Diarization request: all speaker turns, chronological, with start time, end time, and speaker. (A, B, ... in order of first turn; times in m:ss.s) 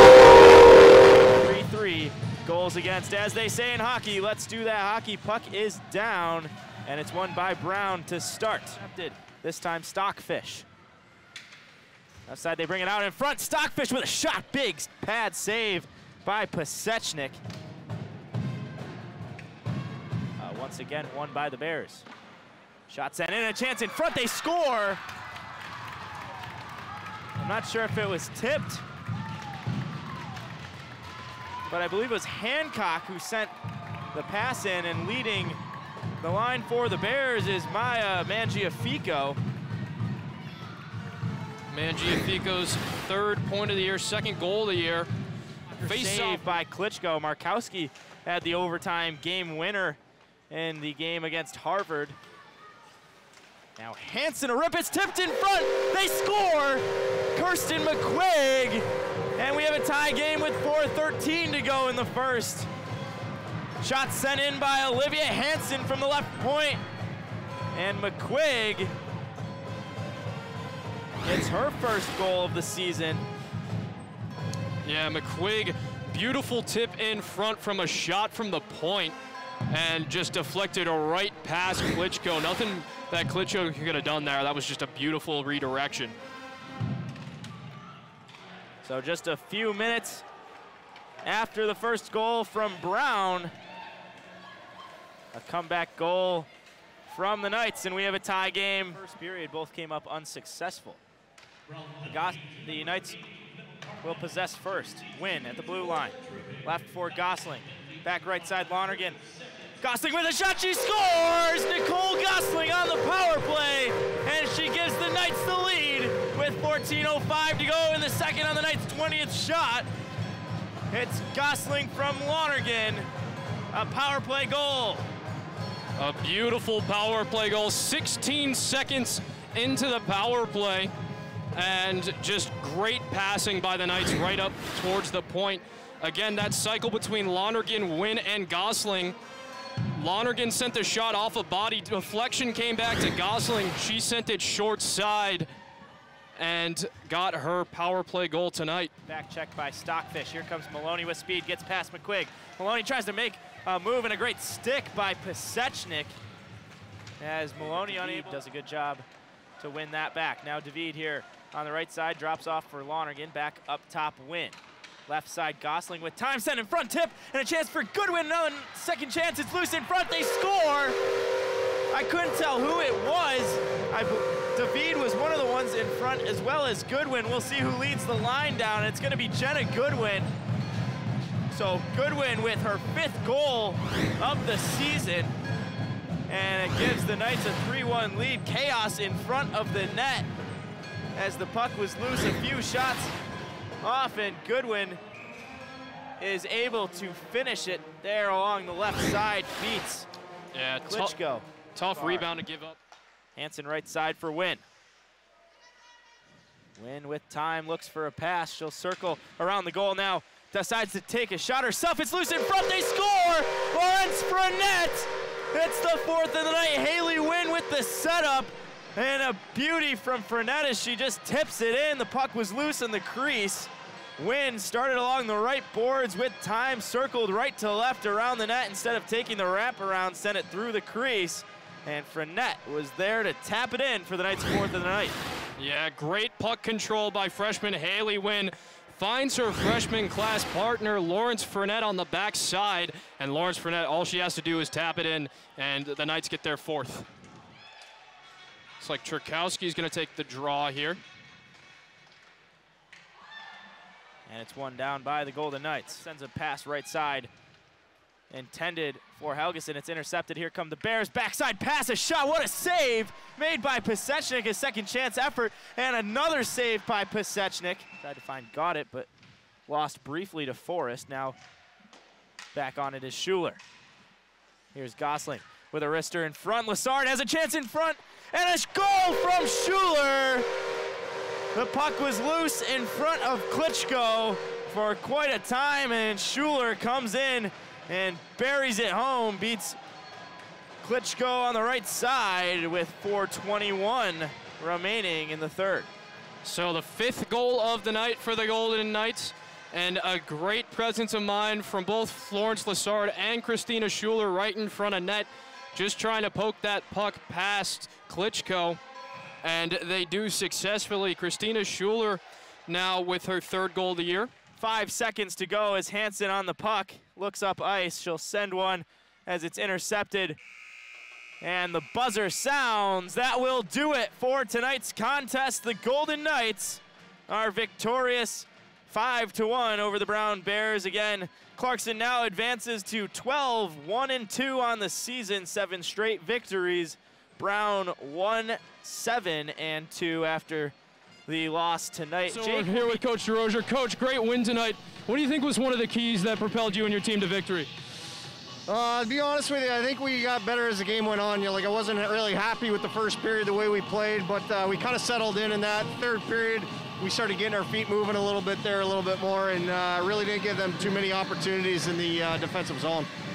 0:01.4-0:10.7 A
0:12.3-0:17.4 A
0:20.4-0:22.1 A
0:22.9-0:25.0 A
0:27.4-0:28.8 A
0:31.7-0:33.5 A
0:34.1-0:35.6 A
0:36.2-0:39.4 A
0:41.7-0:45.1 B
0:45.8-0:50.0 A
0:45.8-0:46.5 B
0:50.5-0:52.2 A
0:53.8-0:56.8 A
0:57.3-0:58.9 A
0:59.4-1:02.7 A
1:03.8-1:06.8 A
1:07.7-1:08.9 A
1:11.2-1:13.3 A
1:14.8-1:19.2 B
1:19.7-1:26.2 B
1:28.8-1:30.2 A
1:31.2-1:33.5 A
1:35.3-1:36.5 A
1:37.1-1:41.0 A
1:42.0-1:43.2 A
1:44.0-1:49.2 A
1:49.8-1:59.9 A
2:00.9-2:03.1 A
2:03.7-2:05.0 A
2:06.0-2:10.9 B
2:11.5-2:19.2 B
2:20.0-2:25.5 B
2:26.4-2:28.9 B
2:29.0-2:36.2 A
2:37.2-2:39.0 A
2:39.6-2:51.0 A
2:51.9-3:00.3 A
3:01.5-3:05.3 A
3:06.3-3:10.3 A
3:11.1-3:13.2 A
3:13.8-3:15.0 A
3:16.2-3:20.1 A
3:20.5-3:21.2 B
3:20.8-3:22.3 A
3:21.8-3:22.8 B
3:23.4-3:24.6 A
3:26.8-3:55.2 A
3:55.6-4:07.1 B
4:08.8-4:11.0 B
4:14.3-4:17.3 A
4:18.3-4:29.1 A
4:29.7-4:31.4 A
4:32.5-4:33.6 A
4:34.7-4:40.5 A
4:41.5-4:49.8 A
4:50.8-4:55.9 A
4:56.4-5:08.8 B
5:09.4-5:14.3 B
5:14.6-5:20.4 A
5:21.4-5:40.7 A
5:41.3-5:43.0 A
5:42.3-5:47.7 B
5:48.7-6:03.1 C